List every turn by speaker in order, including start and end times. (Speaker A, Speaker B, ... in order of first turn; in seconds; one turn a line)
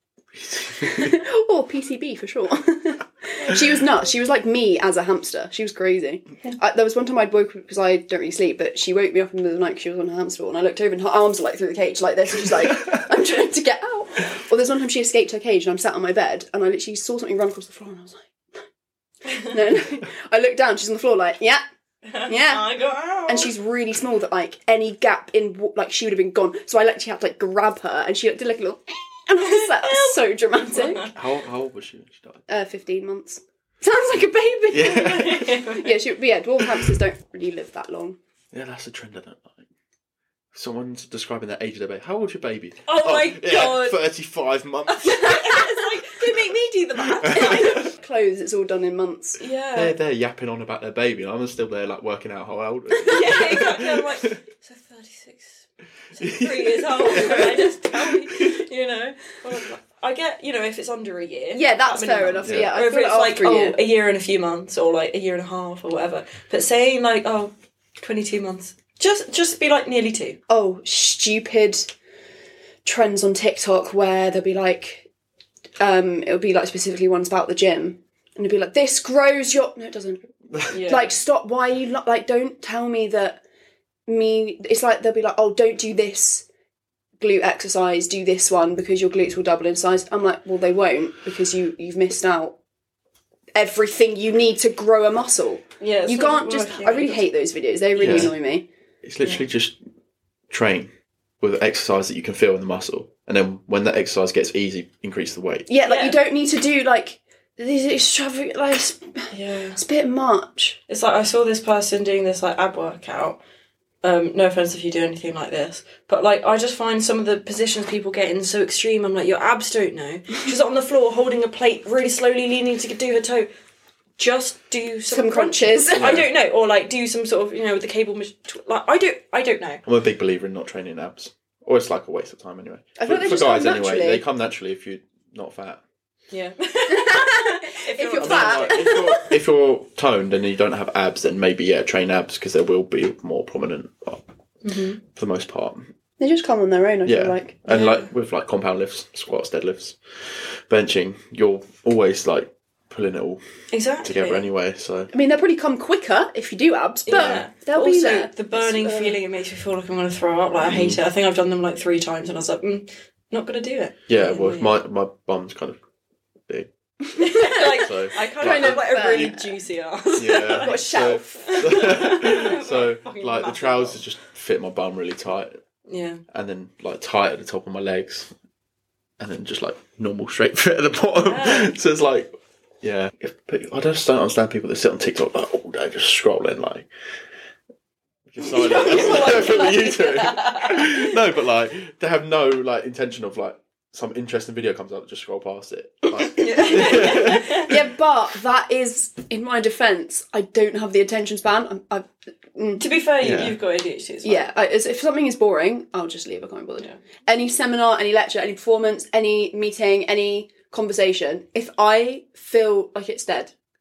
Speaker A: 0.4-1.2
Speaker B: 0.7-18.4
Speaker B: 19.3-21.6
Speaker C: 22.1-23.5
Speaker B: 22.3-22.7
Speaker B: 23.3-31.1
Speaker C: 29.4-31.1
Speaker A: 31.1-32.4
Speaker B: 32.5-38.2
Speaker A: 34.7-35.5
Speaker C: 34.9-35.9
Speaker A: 38.5-39.6
Speaker A: 40.5-45.5
Speaker C: 42.9-44.0
Speaker C: 44.9-47.9
Speaker A: 47.2-47.8
Speaker B: 47.3-49.4
Speaker C: 49.4-50.0
Speaker A: 49.8-54.4
Speaker C: 53.0-70.4
Speaker A: 56.2-58.6
Speaker B: 61.5-63.8
Speaker A: 62.4-62.7
Speaker B: 70.5-71.9
Speaker B: 72.8-75.1
Speaker B: 75.8-83.4
Speaker C: 80.7-81.1
Speaker B: 84.1-86.5
Speaker B: 87.2-92.6
Speaker B: 93.5-98.7
Speaker C: 95.8-97.3
Speaker A: 98.0-98.3
Speaker A: 99.0-99.8
Speaker A: 100.5-105.7
Speaker B: 105.7-110.8
Speaker C: 105.8-106.2
Speaker C: 109.3-109.8
Speaker C: 110.9-113.4
Speaker C: 114.0-123.5
Speaker C: 124.2-129.8
Speaker B: 125.1-126.2
Speaker A: 126.0-126.3
Speaker A: 129.8-135.8
Speaker B: 133.0-134.2
Speaker C: 136.3-139.1
Speaker B: 136.9-139.3
Speaker A: 138.1-144.2
Speaker C: 144.6-145.0
Speaker A: 145.1-145.9
Speaker B: 146.2-147.6
Speaker A: 147.1-153.4
Speaker C: 147.7-148.1
Speaker C: 153.7-154.5
Speaker A: 154.0-155.1
Speaker B: 155.1-159.2
Speaker C: 157.1-164.8
Speaker A: 157.1-157.4
Speaker A: 160.6-161.0
Speaker A: 164.1-165.8
Speaker B: 167.1-169.5
Speaker C: 167.2-174.0
Speaker A: 167.8-169.3
Speaker A: 170.2-175.6
Speaker B: 170.6-171.9
Speaker C: 175.9-176.2
Speaker A: 176.3-178.3
Speaker A: 179.2-186.9
Speaker C: 181.2-181.7
Speaker A: 188.3-197.7
Speaker C: 188.5-191.2
Speaker B: 188.5-189.6
Speaker B: 196.4-202.9
Speaker C: 196.4-197.7
Speaker C: 202.8-204.5
Speaker A: 203.2-203.6
Speaker B: 204.2-213.5